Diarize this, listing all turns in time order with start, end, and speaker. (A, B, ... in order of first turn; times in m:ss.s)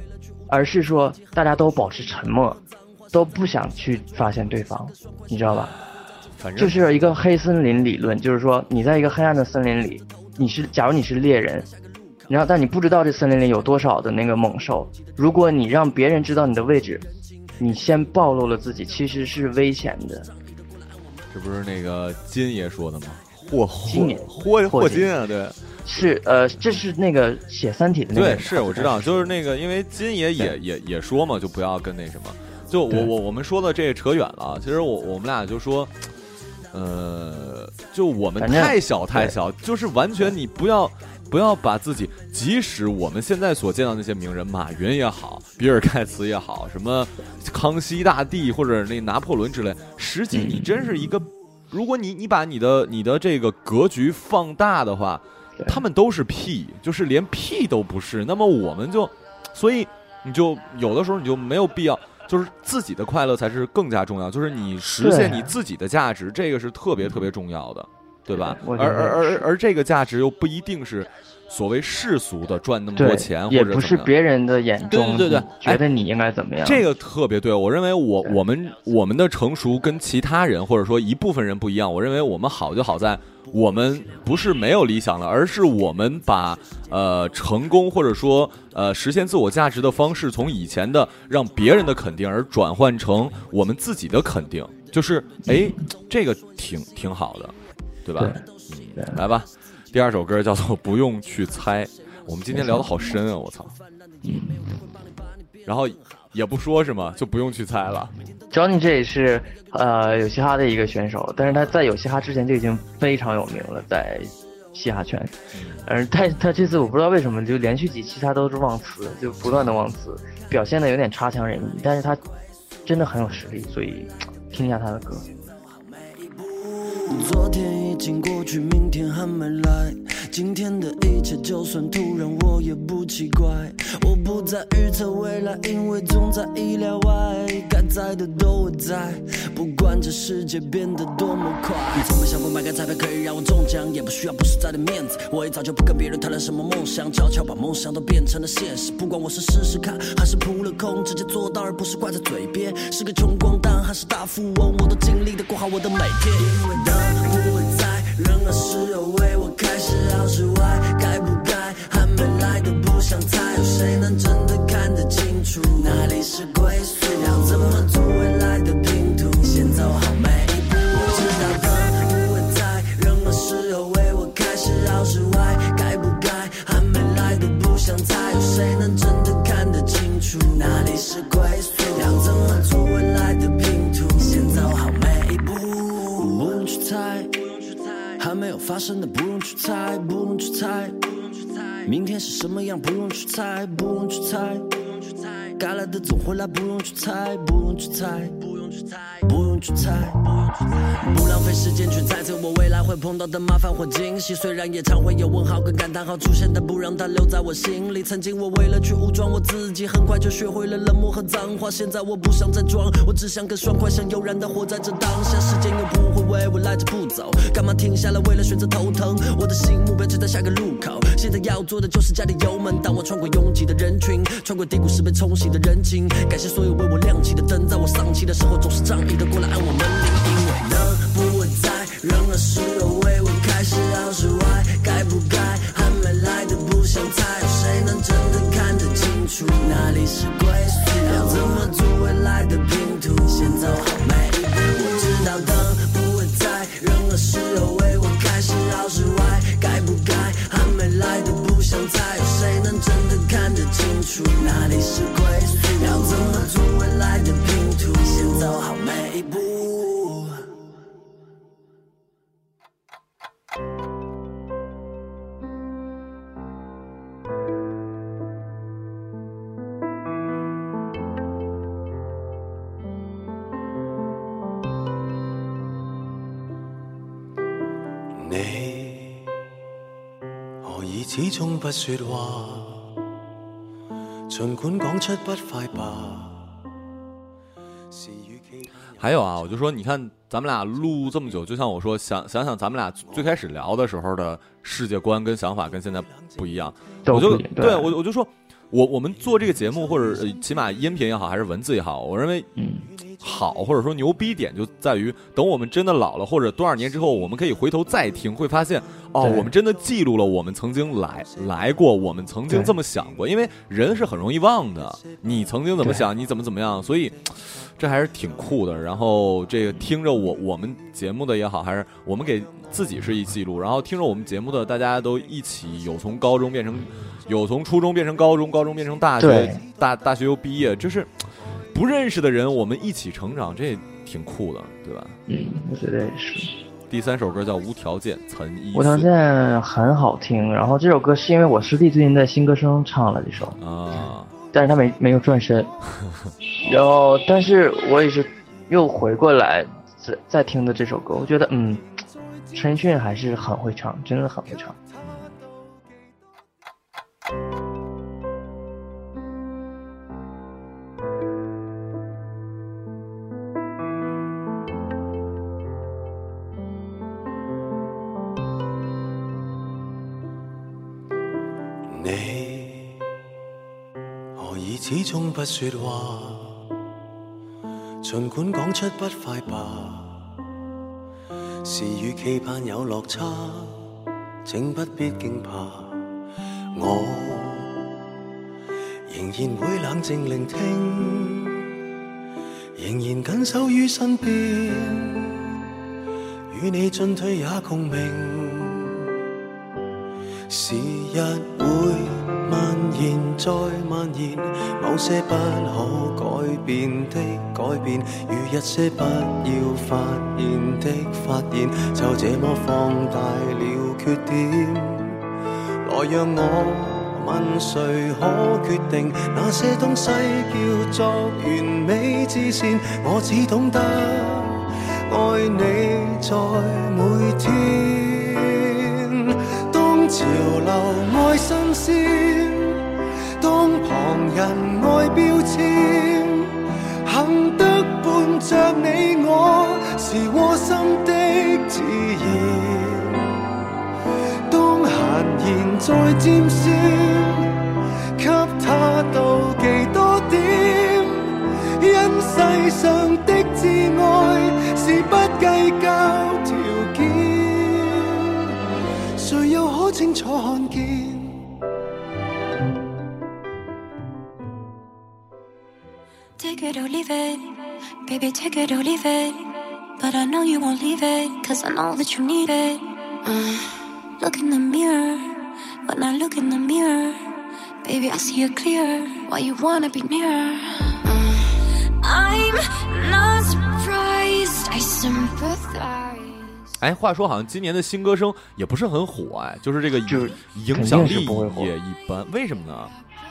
0:00.5-0:02.6 A
0:03.1-0:05.7 A
0:06.3-0:06.8 B
0:06.6-0:11.7 A
0:12.3-0:17.0 A
0:17.6-0:20.3 A
0:21.3-0:26.0 B
0:23.8-0:25.1 A
0:25.8-0:29.4 A
0:28.1-0:35.9 B
0:36.7-1:14.1 B
0:38.4-0:39.4 A
0:50.3-0:51.0 A
1:05.0-1:05.5 A
1:08.3-1:09.4 A
1:13.0-1:16.8 A
1:14.8-1:15.8 B
1:16.6-1:43.8 B
1:35.4-1:35.8 A
1:38.2-1:39.2 A
1:42.5-1:42.9 A
1:44.2-1:44.7 A
1:45.6-1:48.1 B
1:48.5-1:55.3 A
1:55.5-1:55.8 B
1:55.8-2:02.2 A
1:59.4-1:59.7 B
2:02.8-2:05.3 A
2:06.1-4:20.4 C
4:38.1-4:39.3 D
4:40.6-4:42.9 D
4:44.3-4:46.6 D
4:47.9-4:49.0 D
4:49.0-5:02.5 B
4:57.0-4:57.9 A
5:02.6-5:02.9 A
5:03.2-5:35.2 B
5:09.2-5:09.5 A
5:29.2-5:29.6 A
5:35.3-5:36.5 A
5:36.9-5:39.1 B
5:38.7-5:43.6 A
5:43.6-5:44.3 B
5:44.5-5:45.7 A
5:46.6-5:51.9 A
5:52.5-5:54.8 A
6:11.8-6:13.0 D
6:14.4-6:16.6 D
6:18.0-6:20.3 D
6:21.6-6:23.8 D
6:24.4-6:26.0 D
6:26.7-6:27.8 D
6:29.1-6:31.6 D
6:32.8-6:35.4 D
6:36.5-6:39.1 D
6:40.5-6:55.2 D
6:55.8-7:12.8 D
7:13.4-7:23.3 D
7:24.5-7:27.6 D
7:28.2-7:38.5 D
7:39.2-7:41.4 D
7:46.4-7:47.5 E
7:48.0-7:49.4 E
7:50.0-7:53.6 E
7:54.2-7:57.2 E
7:57.8-8:01.1 E
8:02.0-8:06.7 E
8:06.8-8:12.9 B
8:10.0-8:11.7 A